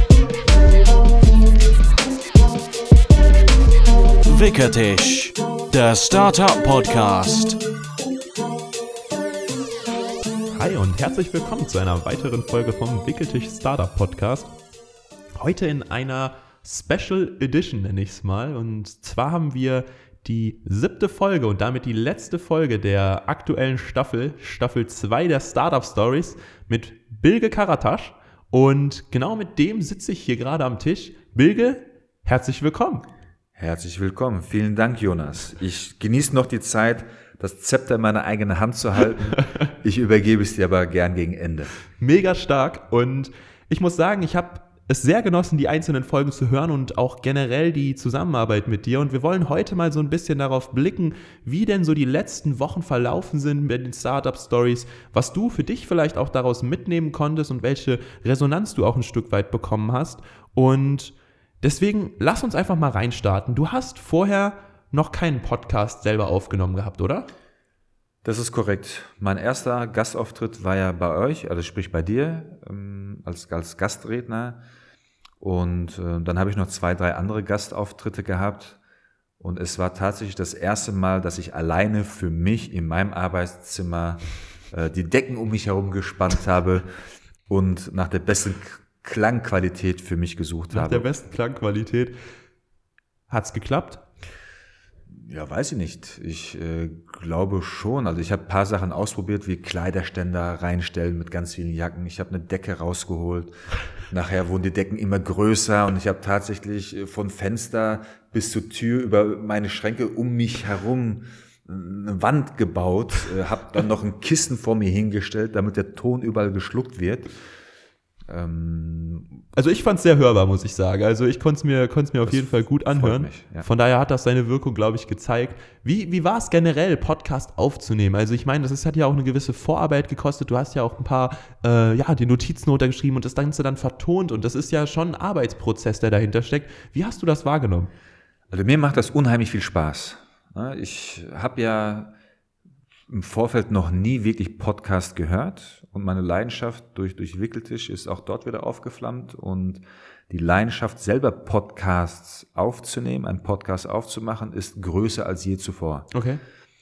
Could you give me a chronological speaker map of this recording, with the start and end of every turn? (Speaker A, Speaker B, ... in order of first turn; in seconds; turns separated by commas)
Speaker A: 4.3-7.6, Speaker B: 10.5-14.5, Speaker B: 15.4-33.1, Speaker C: 33.6-41.7, Speaker B: 42.0-67.3, Speaker C: 68.2-74.6, Speaker C: 75.4-78.8, Speaker C: 79.4-86.9, Speaker C: 87.5-91.1, Speaker B: 90.7-92.2, Speaker B: 93.3-94.0, Speaker C: 95.1-103.5, Speaker C: 104.1-117.3, Speaker C: 118.3-119.4, Speaker B: 119.5-137.9, Speaker C: 122.3-123.7, Speaker C: 138.5-142.1, Speaker C: 143.1-156.1, Speaker B: 156.1-156.4